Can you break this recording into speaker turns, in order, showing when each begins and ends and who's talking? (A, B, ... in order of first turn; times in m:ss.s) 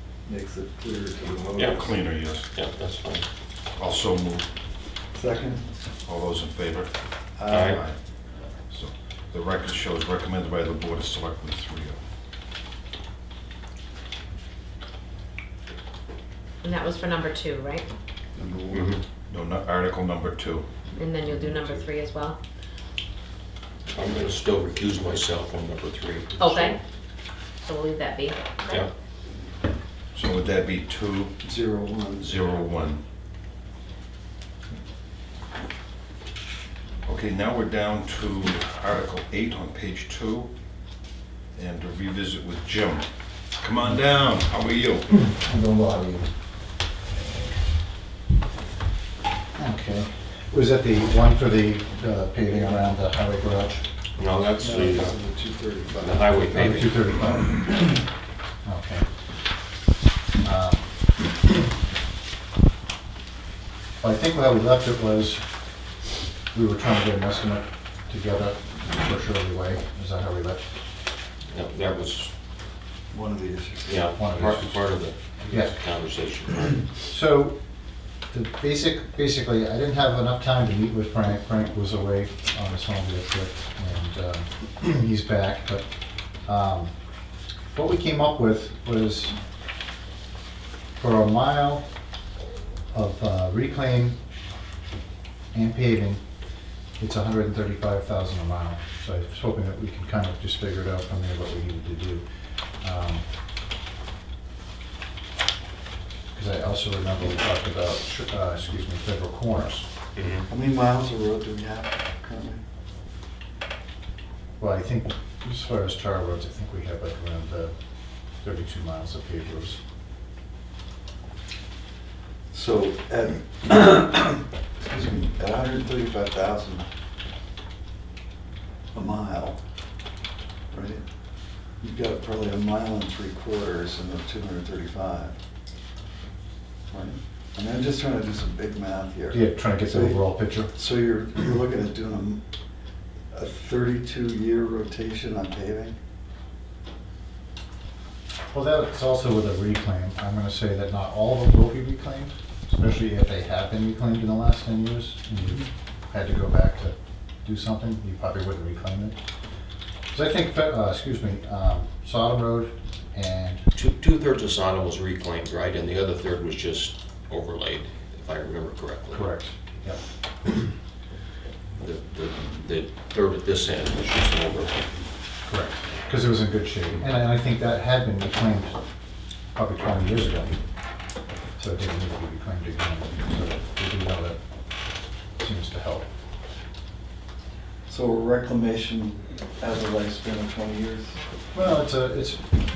0:00.2-0:02.0 A
0:01.7-0:02.5 B
0:02.5-0:03.2 C
0:03.8-0:04.5 B
0:05.1-0:05.6 A
0:06.0-0:06.9 B
0:07.4-0:07.8 A
0:07.5-0:07.8 C
0:07.6-0:08.0 B
0:08.7-0:12.0 B
0:16.6-0:17.8 D
0:18.4-0:19.0 A
0:18.7-0:19.0 C
0:19.3-0:20.7 B
0:21.0-0:22.4 D
0:23.9-0:26.7 C
0:26.4-0:26.8 D
0:27.6-0:28.3 D
0:30.1-0:31.4 B
0:31.4-0:32.4 A
0:32.2-0:33.0 B
0:37.0-0:40.5 B
0:41.5-0:43.1 B
0:43.6-0:45.1 B
0:45.1-0:46.3 E
0:49.6-0:53.8 E
0:52.4-0:52.9 A
0:54.2-0:55.1 C
0:54.6-0:56.5 A
0:56.0-0:57.2 C
0:56.5-0:58.0 E
0:58.6-0:59.0 E
1:00.4-1:01.4 E
1:04.0-1:05.4 E
1:06.5-1:10.6 E
1:11.5-1:12.3 C
1:13.1-1:14.1 A
1:13.8-1:16.8 C
1:14.2-1:14.9 E
1:15.5-1:15.8 E
1:17.1-1:17.6 E
1:18.3-1:25.8 E
1:26.4-1:26.9 E
1:27.7-1:29.4 E
1:31.0-1:31.8 E
1:32.9-1:34.2 E
1:35.5-1:36.2 E
1:37.0-1:42.2 E
1:42.8-1:43.2 E
1:46.3-1:49.8 E
1:50.2-1:50.4 C
1:50.5-1:52.6 A
1:54.6-1:57.7 E
1:58.4-1:59.8 E
2:02.5-2:06.8 A
2:08.9-2:09.6 A
2:10.7-2:11.0 A
2:11.8-2:15.3 A
2:16.9-2:22.4 A
2:19.3-2:20.7 E
2:23.3-2:26.0 A
2:28.5-2:39.2 E
2:40.1-2:43.7 E
2:43.7-2:49.3 C
2:49.1-2:50.0 E
2:51.8-2:55.0 C
2:55.4-2:58.8 E
2:59.5-3:00.6 E
3:01.6-3:04.4 E
3:05.4-3:06.1 E
3:07.9-3:11.2 A
3:11.5-3:12.4 E